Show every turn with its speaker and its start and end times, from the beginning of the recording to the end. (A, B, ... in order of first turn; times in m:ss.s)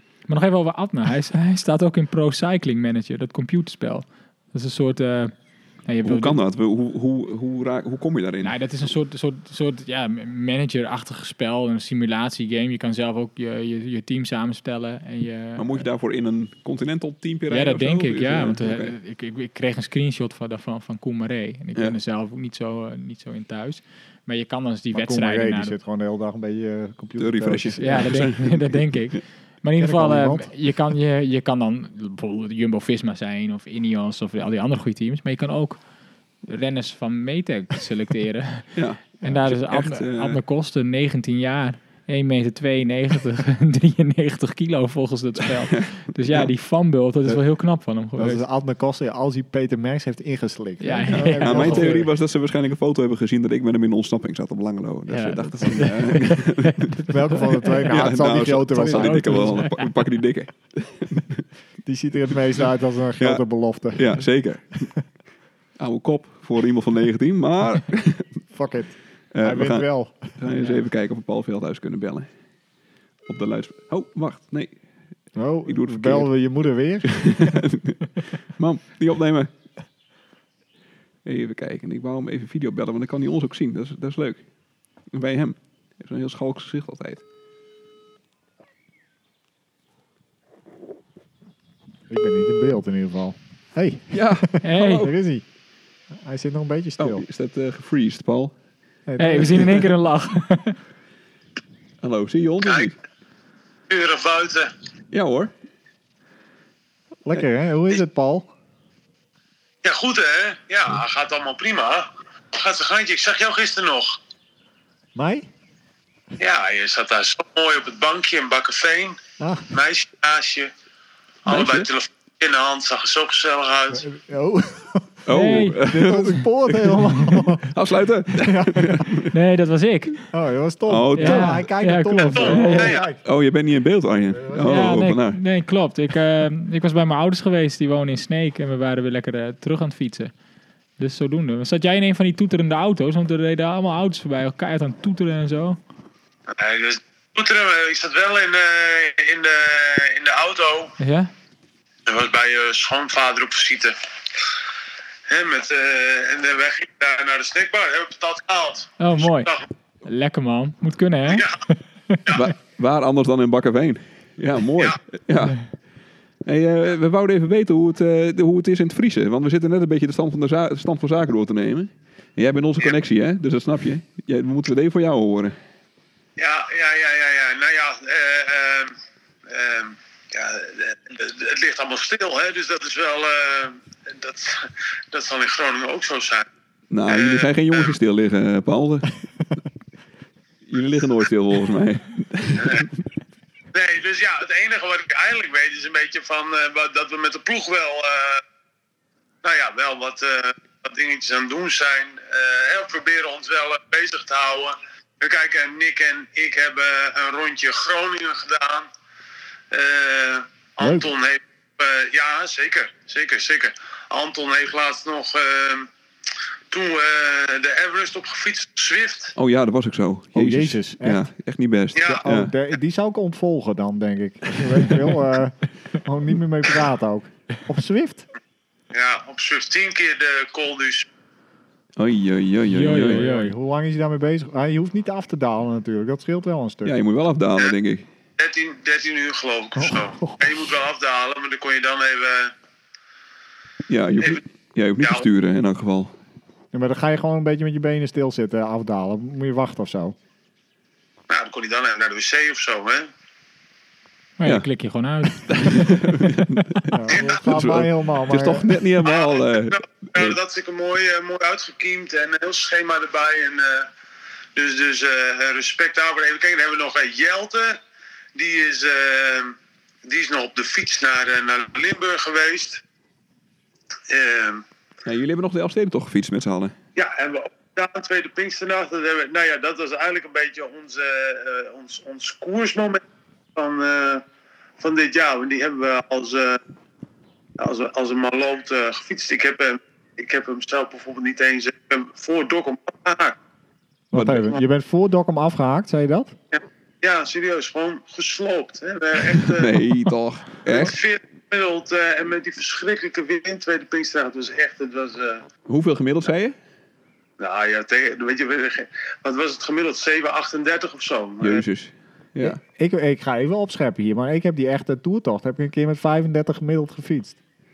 0:00.3-0:05.3 A
0:05.9-0:06.4 A
0:06.0-0:08.5 B
0:08.4-0:15.9 A
0:15.6-0:19.0 B
0:17.5-0:25.8 A
0:24.9-0:28.2 C
0:27.2-0:29.2 B
0:27.8-0:35.8 A
0:29.8-0:30.5 C
0:36.5-0:48.4 A
0:38.8-0:40.4 B
0:45.6-0:46.5 B
0:48.2-0:52.1 C
0:50.8-0:52.0 A
0:51.1-0:57.1 B
0:55.1-0:58.0 A
0:57.0-0:59.6 C
0:57.7-1:01.5 B
0:58.7-0:59.9 A
1:01.8-1:04.2 C
1:03.9-1:05.0 B
1:05.8-1:08.4 B
1:08.5-1:10.3 C
1:09.3-1:12.3 B
1:10.5-1:10.8 A
1:13.3-1:14.7 B
1:15.4-1:17.6 C
1:15.7-1:16.3 B
1:17.0-1:19.5 B
1:21.2-1:24.4 B
1:25.1-1:27.2 B
1:32.1-1:35.4 C
1:34.1-1:35.1 B
1:34.6-1:35.1 A
1:36.2-1:37.2 C
1:37.0-1:38.5 B
1:39.1-1:39.9 C
1:39.2-1:40.8 A
1:39.5-1:39.8 B
1:42.0-1:43.0 B
1:42.6-1:42.9 D
1:43.9-1:44.7 D
1:45.1-1:45.5 B
1:47.2-1:48.5 C
1:49.8-1:54.2 D
1:55.2-1:55.5 C
1:56.4-1:59.2 D
1:59.4-1:59.7 C
1:59.7-2:00.7 D
2:01.5-2:04.1 D
2:01.5-2:01.9 B
2:03.9-2:05.3 C
2:05.3-2:09.4 B
2:05.3-2:05.9 A
2:05.8-2:07.7 C
2:08.3-2:09.1 C
2:09.3-2:10.3 A
2:10.3-2:13.2 C
2:10.9-2:11.7 B
2:11.2-2:13.0 A
2:12.3-2:13.1 D
2:12.5-2:15.4 B
2:14.4-2:14.8 C
2:14.6-2:20.3 A
2:21.0-2:25.8 A
2:26.5-2:30.9 D
2:31.0-2:31.3 A
2:32.1-2:34.0 D
2:35.3-2:39.7 D
2:39.0-2:39.5 A
2:40.0-2:42.4 A
2:41.3-2:41.5 D
2:42.3-2:45.7 B
2:46.4-2:55.6 B
2:56.4-2:58.9 D
2:59.5-3:06.5 D
3:06.9-3:09.2 B
3:07.1-3:08.0 D
3:10.7-3:13.0 B
3:12.6-3:12.9 D
3:13.7-3:18.4 D
3:19.4-3:28.9 D
3:29.7-3:35.9 D
3:30.8-3:31.1 C
3:36.7-3:39.3 D
3:39.4-3:42.5 B
3:40.4-3:41.3 C
3:42.0-3:42.2 D
3:42.0-3:48.3 C
3:48.9-3:51.1 D
3:52.0-3:53.2 B
3:52.7-3:53.6 A
3:52.9-3:57.0 C
3:56.8-3:58.0 B
3:58.4-4:02.5 D
3:59.8-4:00.6 C
4:03.9-4:06.2 B
4:05.0-4:05.3 D
4:06.7-4:10.2 C
4:11.3-4:13.1 D
4:14.4-4:16.5 A
4:15.3-4:20.4 B
4:16.9-4:18.8 C
4:17.1-4:17.4 D
4:19.0-4:23.9 D
4:24.6-4:27.8 D
4:28.4-4:32.8 D
4:34.1-4:34.6 D
4:35.0-4:36.7 B
4:37.0-4:43.0 D
4:43.6-4:44.2 D
4:44.8-4:46.6 D
4:47.6-4:53.4 D
4:54.1-4:56.4 C
4:54.1-4:54.4 B
4:56.5-4:59.8 D
4:59.3-5:01.0 B
5:00.7-5:05.5 D
5:05.7-5:06.6 B
5:07.4-5:11.6 D
5:11.4-5:12.6 B
5:12.4-5:17.4 C